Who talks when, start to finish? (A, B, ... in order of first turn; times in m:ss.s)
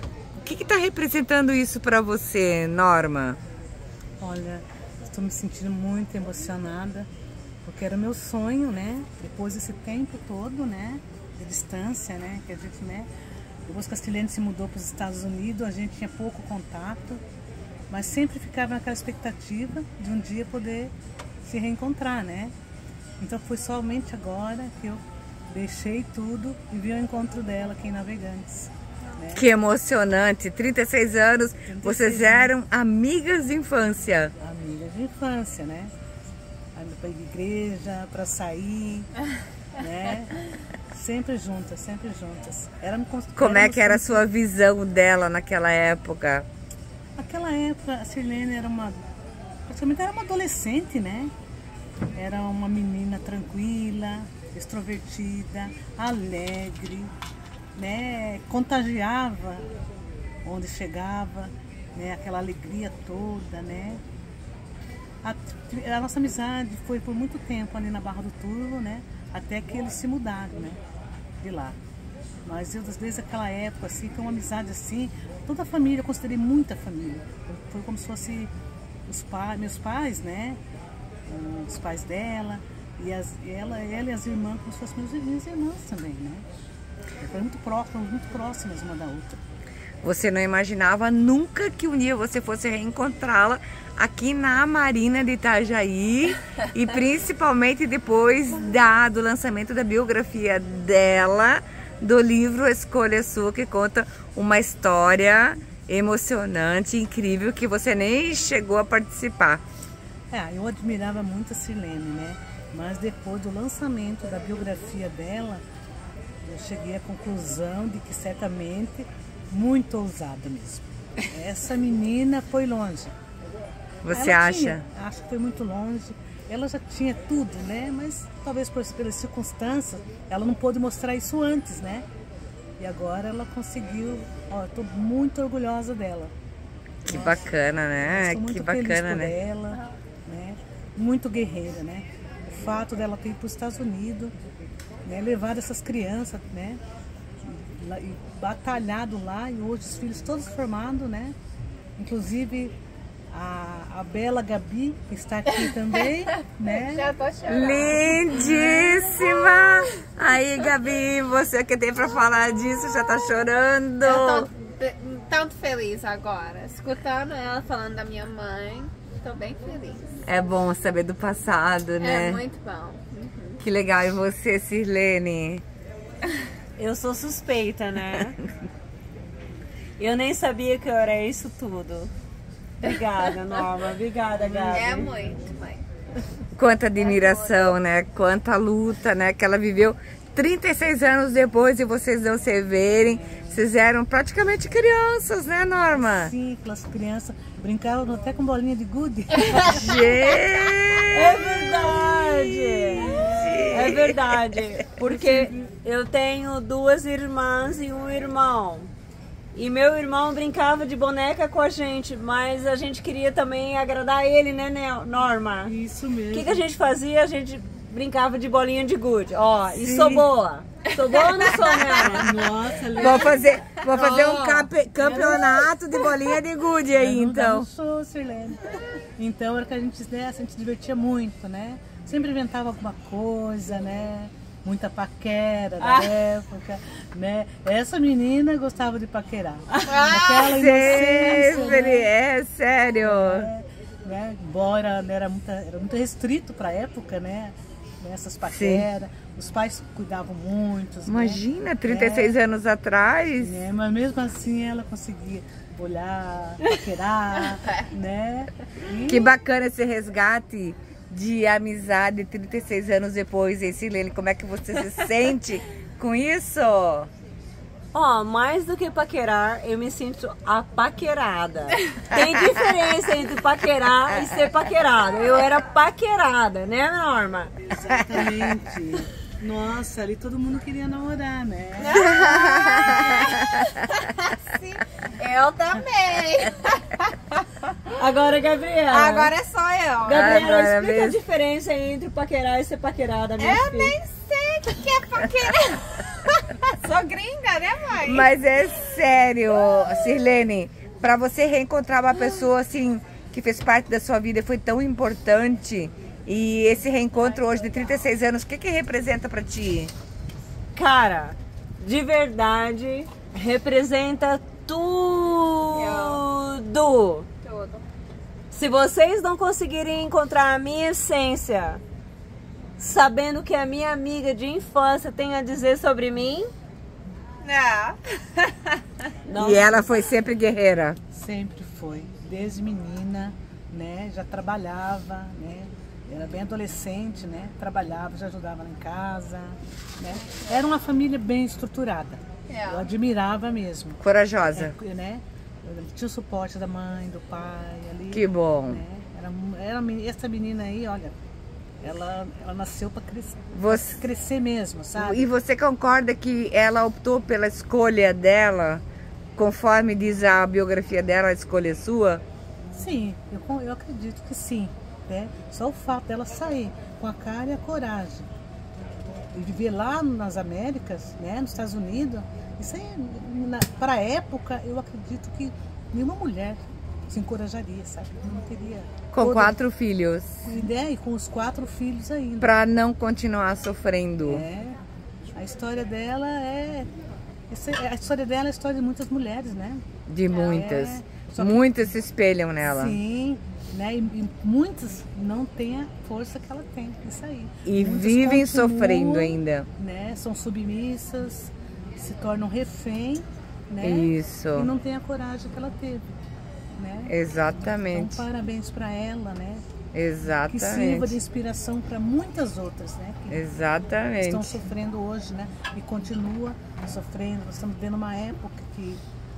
0:00.4-0:03.4 A
0:04.2-0:07.1 B
0:07.6-0:13.1 B
0:13.7-0:17.2 B
0:17.9-0:20.9 B
0:21.4-0:22.5 B
0:23.2-0:29.5 B
0:29.3-0:34.3 A
0:31.7-0:32.5 B
0:34.4-0:35.9 B
0:36.8-0:39.1 B
0:39.8-0:44.2 B
0:43.4-0:46.4 A
0:47.2-0:49.0 B
0:49.7-0:51.3 B
0:52.2-0:57.1 B
0:57.8-0:59.7 B
1:00.4-1:04.0 B
1:05.2-1:10.8 B
1:11.4-1:11.8 B
1:12.4-1:18.5 B
1:19.1-1:20.6 B
1:21.3-1:26.4 B
1:27.2-1:29.4 B
1:30.0-1:49.6 A
1:50.3-1:55.6 B
1:56.4-2:03.1 B
2:04.0-2:04.8 A
2:04.1-2:12.0 B
2:12.8-2:16.3 B
2:17.0-2:17.5 B
2:17.1-2:19.3 A
2:18.0-2:24.3 B
2:25.0-2:26.8 B
2:27.4-2:31.4 B
2:32.0-2:32.8 B
2:33.3-2:37.1 B
2:36.6-2:39.4 C
2:37.5-2:44.5 A
2:44.0-2:50.2 C
2:50.2-2:52.4 A
2:52.0-2:53.6 C
2:53.6-2:55.6 A
2:56.8-2:58.4 D
3:00.0-3:02.1 D
3:02.8-3:05.1 D
3:04.7-3:05.8 C
3:06.6-3:16.3 A
3:07.0-3:07.7 C
3:13.1-3:13.6 B
3:15.9-3:20.0 B
3:19.6-3:22.0 A
3:21.1-3:28.9 D
3:22.6-3:24.2 A
3:23.4-3:23.8 B
3:25.0-3:25.5 B
3:29.5-3:35.7 D
3:35.6-3:36.7 B
3:36.3-3:42.4 D
3:39.8-3:40.3 A
3:41.3-3:41.8 C
3:42.0-3:43.4 B
3:43.0-3:47.7 A
3:43.0-3:43.4 C
3:44.0-3:45.4 D
3:46.9-4:02.1 B
3:55.8-3:56.2 D
3:59.9-4:00.5 C
4:00.5-4:03.5 A
4:03.0-4:12.4 B
4:08.5-4:08.9 A
4:11.1-4:13.6 A
4:13.4-4:19.3 B
4:19.1-4:27.1 A
4:27.9-4:37.5 D
4:37.7-4:42.1 B
4:41.8-4:47.7 C
4:42.0-4:43.7 A
4:47.9-4:49.3 D
4:48.9-4:50.5 C
4:50.0-4:54.0 D
4:50.1-4:51.2 A
4:53.4-4:58.3 C
4:58.0-5:09.9 A
5:10.8-5:17.3 D
5:15.7-5:16.2 C
5:17.4-5:17.8 C
5:18.5-5:21.8 D
5:22.8-5:26.5 D
5:27.4-5:28.7 C
5:29.3-5:29.8 D
5:29.4-5:31.0 A
5:31.1-5:51.2 B
5:42.5-5:42.8 C
5:44.0-5:44.8 A
5:48.1-5:48.8 A
5:51.8-5:55.2 B
5:53.5-5:54.0 A
5:55.0-5:58.8 A
5:59.4-6:02.2 A
6:02.7-6:08.3 B
6:09.3-6:19.6 B
6:19.1-6:20.3 A
6:20.4-6:22.6 B
6:22.4-6:24.4 A
6:24.2-6:24.8 B
6:25.3-6:26.9 B
6:27.5-6:31.9 B
6:30.1-6:33.0 A
6:32.6-6:46.0 B
6:37.6-6:39.7 A
6:43.8-6:44.7 A
6:46.7-6:47.1 B
6:47.1-6:48.2 A
6:47.7-6:49.6 B
6:49.9-6:51.2 A
6:50.5-6:53.4 B
6:53.3-6:54.6 A
6:54.2-6:59.0 B